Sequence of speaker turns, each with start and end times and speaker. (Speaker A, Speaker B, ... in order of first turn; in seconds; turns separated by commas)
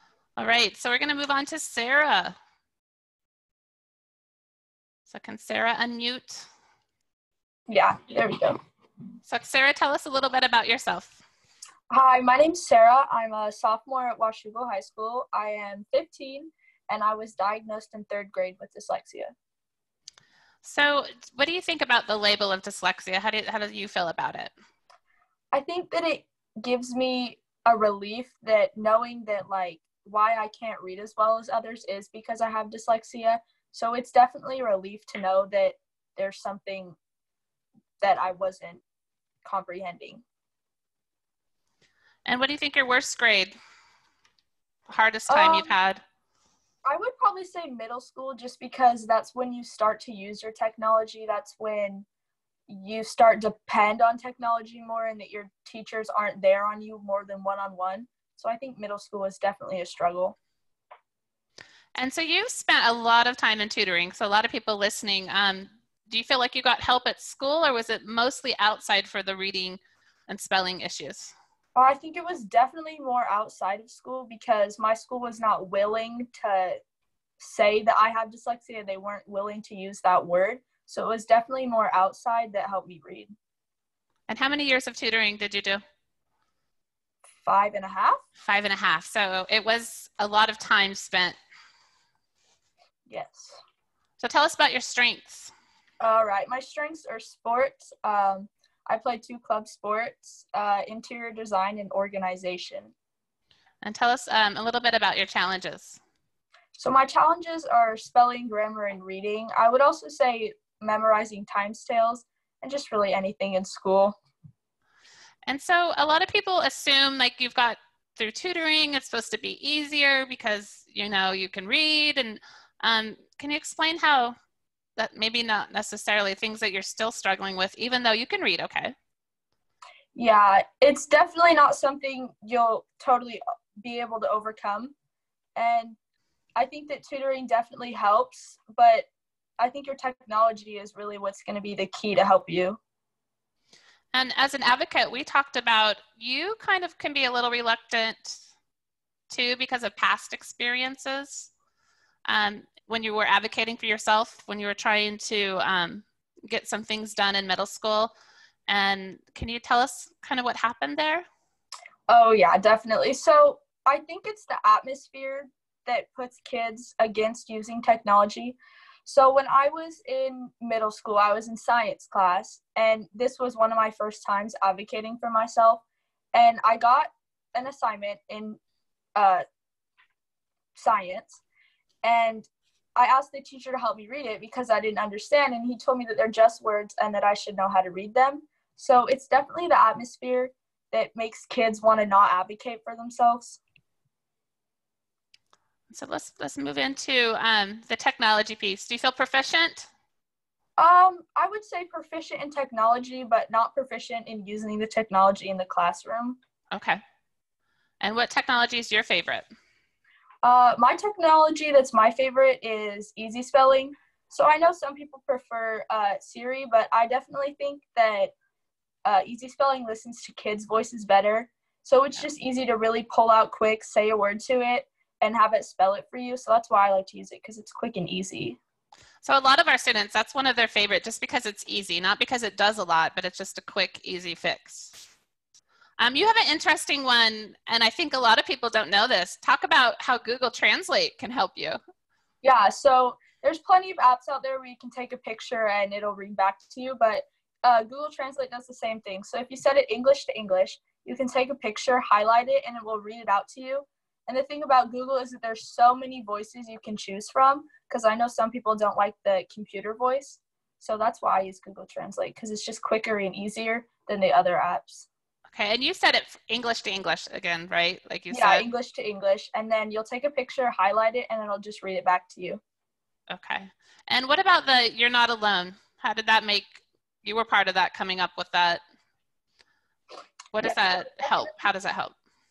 Speaker A: 0.4-2.4, Speaker A: 5.1-6.5, Speaker B: 7.7-8.6, Speaker A: 9.2-11.2, Speaker B: 11.9-19.3, Speaker A: 20.6-24.5, Speaker B: 25.5-37.0, Speaker B: 38.0-38.8, Speaker B: 39.4-40.2, Speaker A: 42.2-43.5, Speaker A: 44.9-46.0, Speaker B: 45.3-45.7, Speaker B: 46.8-52.0, Speaker B: 52.7-60.4, Speaker A: 62.0-71.3, Speaker B: 71.7-76.8, Speaker B: 77.4-83.3, Speaker A: 84.3-85.8, Speaker B: 87.4-88.2, Speaker A: 88.4-91.4, Speaker B: 93.1-93.6, Speaker A: 94.2-95.5, Speaker B: 96.0-102.9, Speaker A: 103.8-106.0, Speaker B: 106.7-114.2, Speaker A: 115.5-124.3, Speaker A: 125.0-128.9, Speaker B: 130.1-134.9, Speaker B: 135.6-136.0, Speaker B: 136.6-139.1, Speaker B: 139.6-142.8, Speaker A: 144.1-148.4, Speaker A: 149.3-151.5, Speaker A: 152.2-158.1, Speaker A: 158.7-161.2, Speaker B: 162.1-175.8, Speaker B: 176.3-178.6, Speaker B: 179.1-179.4, Speaker B: 180.8-181.4, Speaker B: 182.0-193.6, Speaker A: 195.9-199.9, Speaker B: 200.8-206.4, Speaker A: 206.7-207.0, Speaker A: 208.0-209.4, Speaker B: 210.4-218.3, Speaker B: 219.0-228.6, Speaker A: 229.2-235.0, Speaker A: 236.0-241.8, Speaker B: 242.4-265.1, Speaker A: 265.5-268.7, Speaker B: 268.3-272.6, Speaker A: 273.3-278.8, Speaker A: 280.5-282.1